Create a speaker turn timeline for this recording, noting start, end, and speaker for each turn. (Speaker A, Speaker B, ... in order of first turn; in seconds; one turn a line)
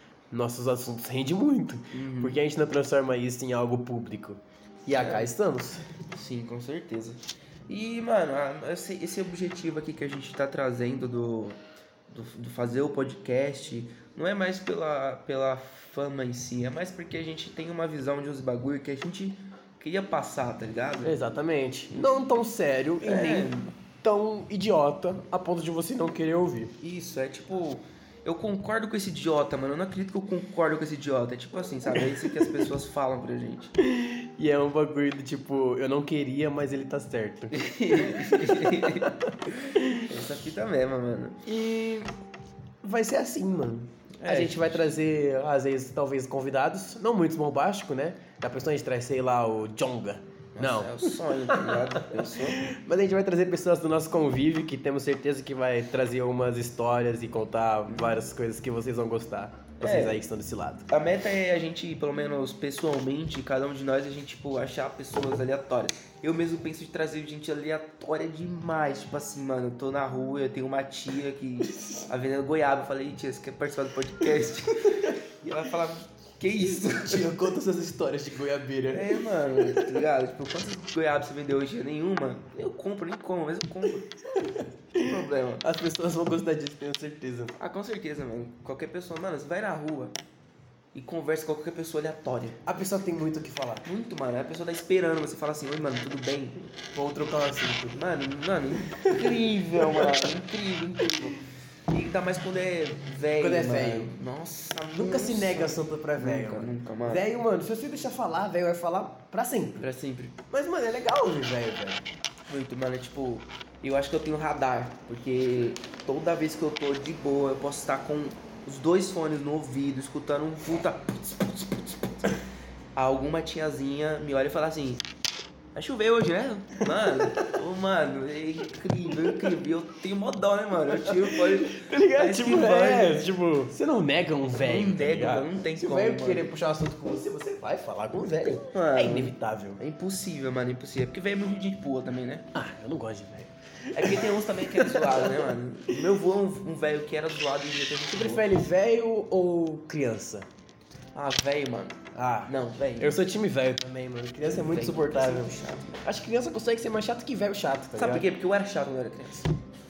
Speaker A: 0.3-5.8
Speaker B: 1.9-2.4
Speaker B: 4.9-5.3
Speaker B: 6.1-21.2
Speaker A: 21.0-26.8
Speaker B: 23.0-23.7
Speaker B: 26.8-33.7
Speaker A: 32.0-32.5
Speaker A: 33.8-40.1
Speaker B: 37.5-39.2
Speaker B: 39.9-41.5
Speaker A: 41.5-42.1
Speaker A: 42.8-60.9
Speaker B: 44.2-44.9
Speaker B: 50.5-52.7
Speaker B: 59.8-60.2
Speaker B: 60.9-77.5
Speaker A: 77.0-79.9
Speaker B: 78.9-84.1
Speaker A: 84.2-87.6
Speaker B: 85.0-85.6
Speaker B: 87.6-90.2
Speaker B: 90.9-92.6
Speaker A: 92.7-93.9
Speaker B: 93.8-96.7
Speaker A: 96.9-98.0
Speaker B: 97.9-107.2
Speaker A: 98.8-100.3
Speaker A: 103.4-104.1
Speaker A: 105.0-109.9
Speaker B: 109.8-110.4
Speaker A: 110.5-112.0
Speaker B: 112.5-122.3
Speaker B: 123.0-125.0
Speaker B: 125.7-133.3
Speaker A: 127.0-127.6
Speaker A: 130.9-139.8
Speaker B: 134.6-136.5
Speaker B: 138.2-142.5
Speaker A: 142.5-145.5
Speaker B: 143.9-148.5
Speaker A: 148.1-150.5
Speaker B: 151.2-153.3
Speaker A: 152.1-158.2
Speaker B: 154.4-156.0
Speaker B: 158.0-159.5